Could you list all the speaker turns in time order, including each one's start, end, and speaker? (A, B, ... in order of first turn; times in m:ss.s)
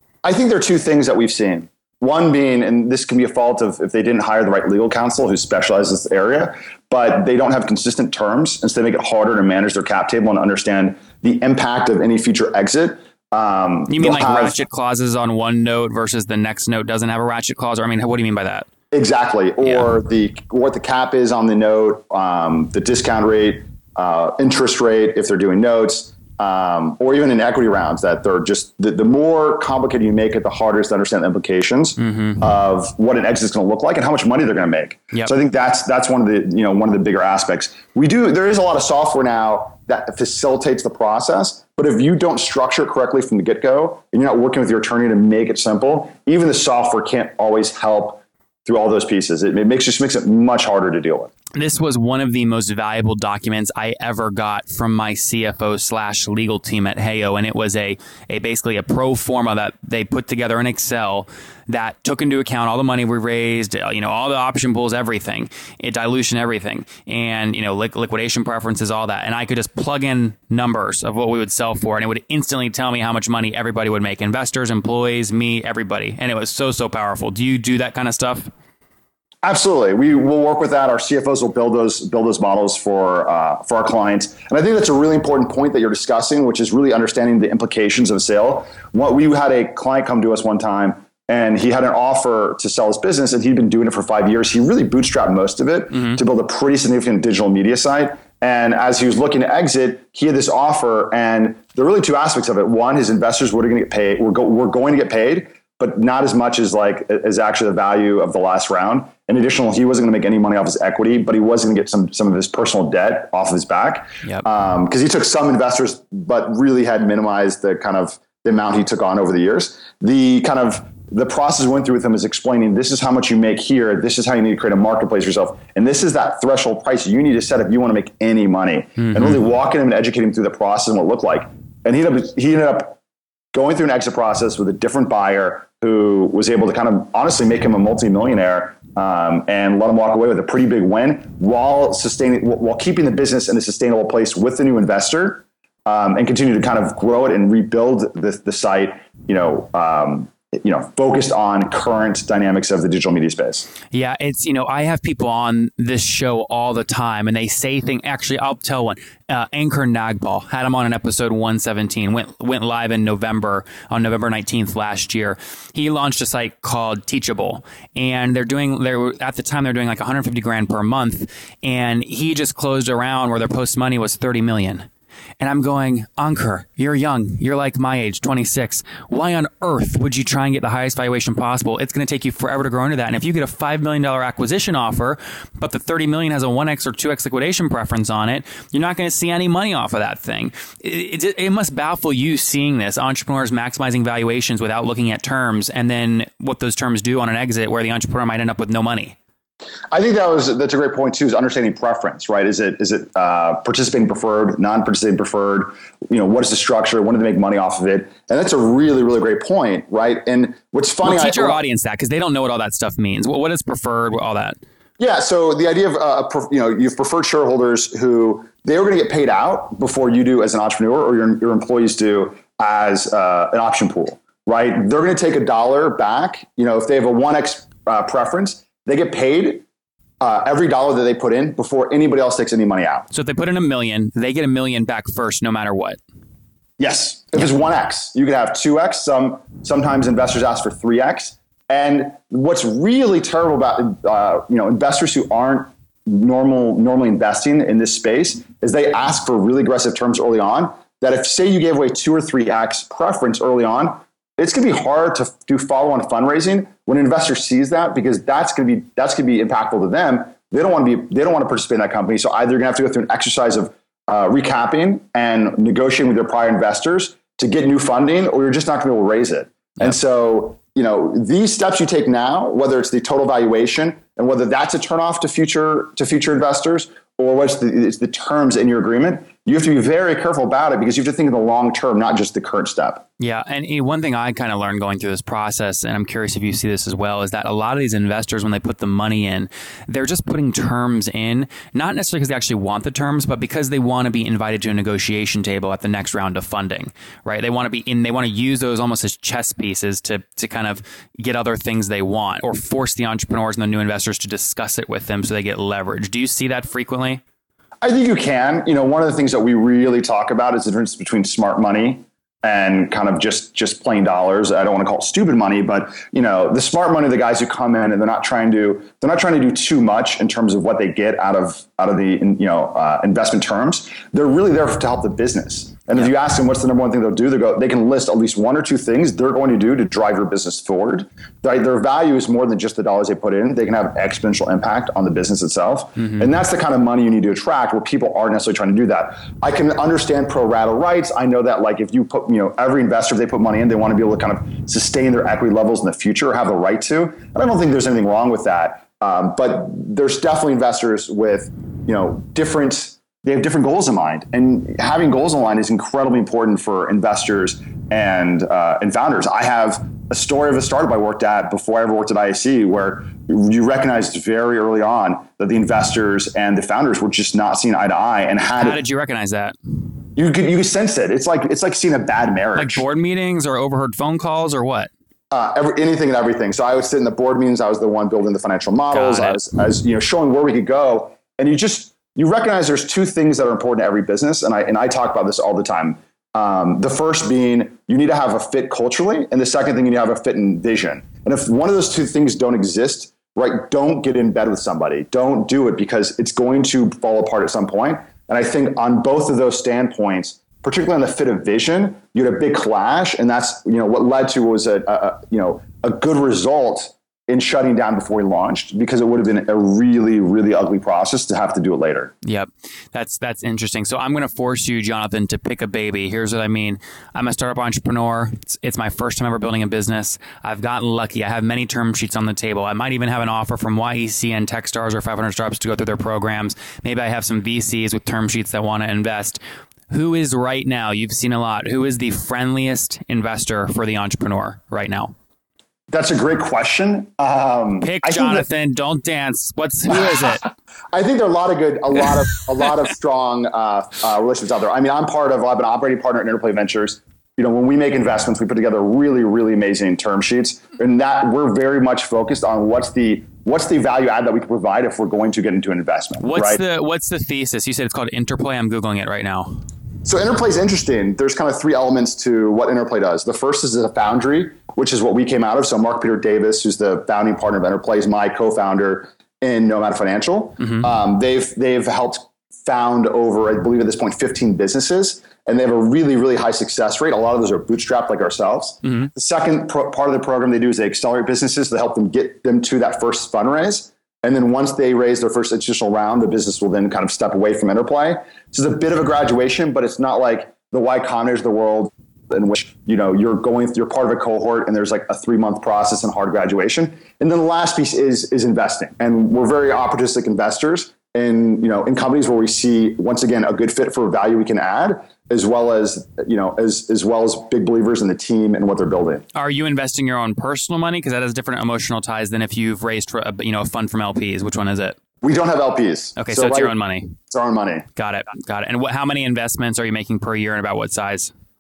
0:00.2-0:14.6 A
0:13.9-0:18.7 B
0:18.9-0:51.3 A
0:32.0-0:32.4 B
0:51.6-1:18.5 B
1:19.4-2:13.0 A
2:09.0-2:09.4 B
2:13.5-2:33.7 A
2:33.9-2:54.9 B
2:55.4-3:19.2 B
3:19.9-3:31.6 A
3:31.0-3:34.6 B
3:35.0-3:49.6 A
3:50.2-3:53.1 A
3:53.1-3:56.0 B
3:56.8-4:43.0 A
4:43.2-5:07.2 B
5:07.8-6:08.8 A
6:08.6-6:09.6 B
6:10.2-6:12.8 A
6:12.6-6:14.9 B
6:15.3-6:52.1 A
6:18.9-6:19.4 B
6:52.2-7:15.1 B
7:15.9-7:18.4 A
7:17.8-7:20.4 B
7:19.9-7:20.4 A
7:20.9-7:36.6 A
7:36.2-7:39.6 B
7:40.0-8:29.2 A
7:50.6-7:50.9 B
8:29.4-8:35.0 B
8:35.2-8:36.8 A
8:36.2-8:37.2 B
8:37.3-8:37.8 A
8:38.0-8:41.3 B